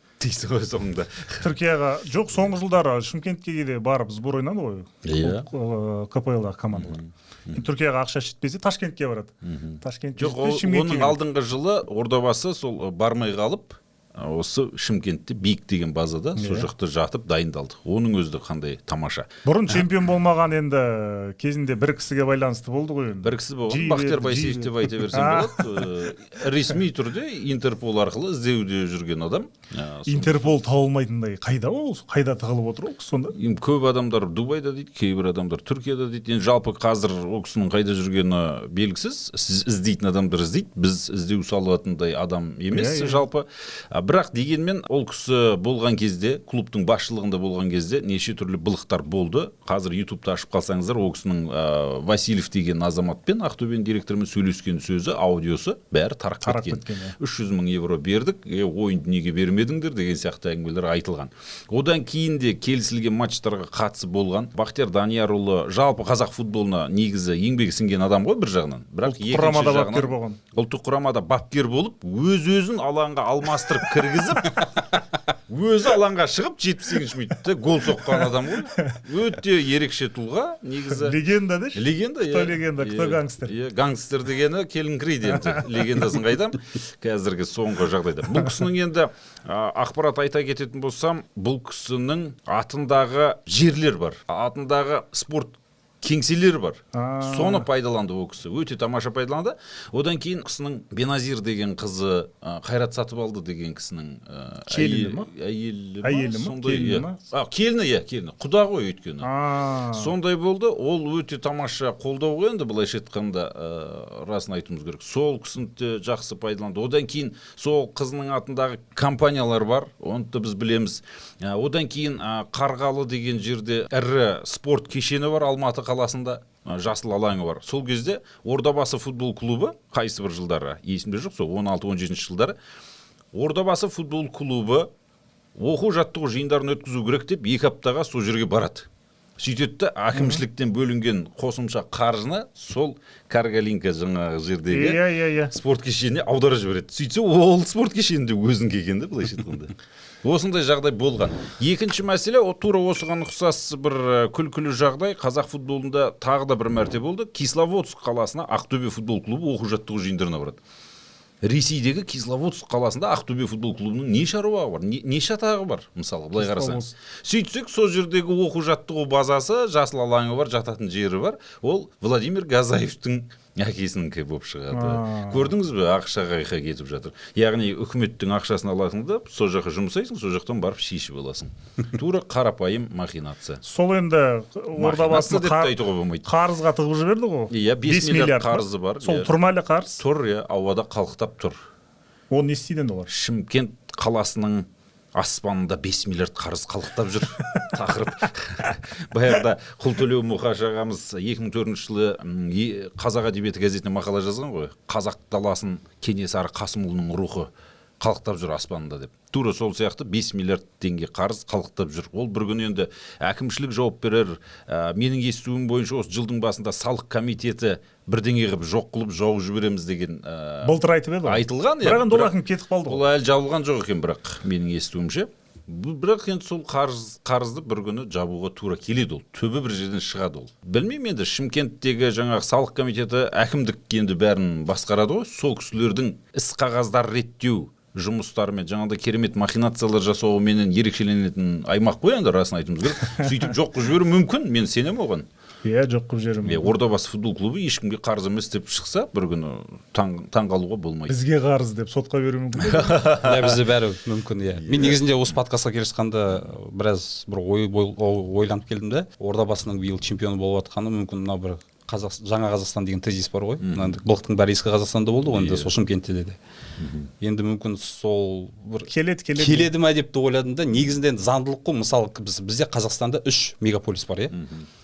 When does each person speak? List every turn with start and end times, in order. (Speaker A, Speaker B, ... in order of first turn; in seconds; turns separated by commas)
Speaker A: 0.2-1.5, Speaker B: 1.4-7.0, Speaker A: 5.0-5.5, Speaker A: 6.8-7.7, Speaker B: 7.5-11.2, Speaker A: 9.4-19.3, Speaker B: 16.4-16.7, Speaker B: 19.4-25.9, Speaker A: 23.2-30.6, Speaker B: 30.1-33.4, Speaker A: 33.3-81.2, Speaker B: 42.7-43.2, Speaker B: 56.4-57.2, Speaker B: 69.0-70.4, Speaker B: 78.0-79.0, Speaker B: 80.9-83.5, Speaker A: 81.7-109.3, Speaker B: 85.3-86.0, Speaker B: 96.9-97.7, Speaker B: 104.7-105.3, Speaker B: 106.0-107.2, Speaker B: 109.2-110.1, Speaker A: 109.9-132.6, Speaker A: 133.3-134.9, Speaker A: 135.6-138.9, Speaker A: 139.4-160.6, Speaker B: 140.1-140.4, Speaker B: 144.7-145.5, Speaker A: 161.4-183.6, Speaker B: 166.4-166.9, Speaker B: 174.7-175.5, Speaker B: 183.7-190.0, Speaker A: 184.8-186.3, Speaker A: 187.5-189.3, Speaker A: 190.0-191.6, Speaker B: 192.3-193.1, Speaker A: 193.1-222.3, Speaker B: 220.6-223.0, Speaker A: 222.9-245.3, Speaker B: 245.6-246.8, Speaker A: 246.4-251.2, Speaker B: 251.1-253.1, Speaker A: 252.6-253.6, Speaker C: 253.2-266.4, Speaker A: 254.6-255.0, Speaker A: 263.6-264.0, Speaker A: 265.3-265.7, Speaker A: 266.8-267.1, Speaker C: 267.2-274.4, Speaker B: 268.9-269.7, Speaker A: 274.3-274.7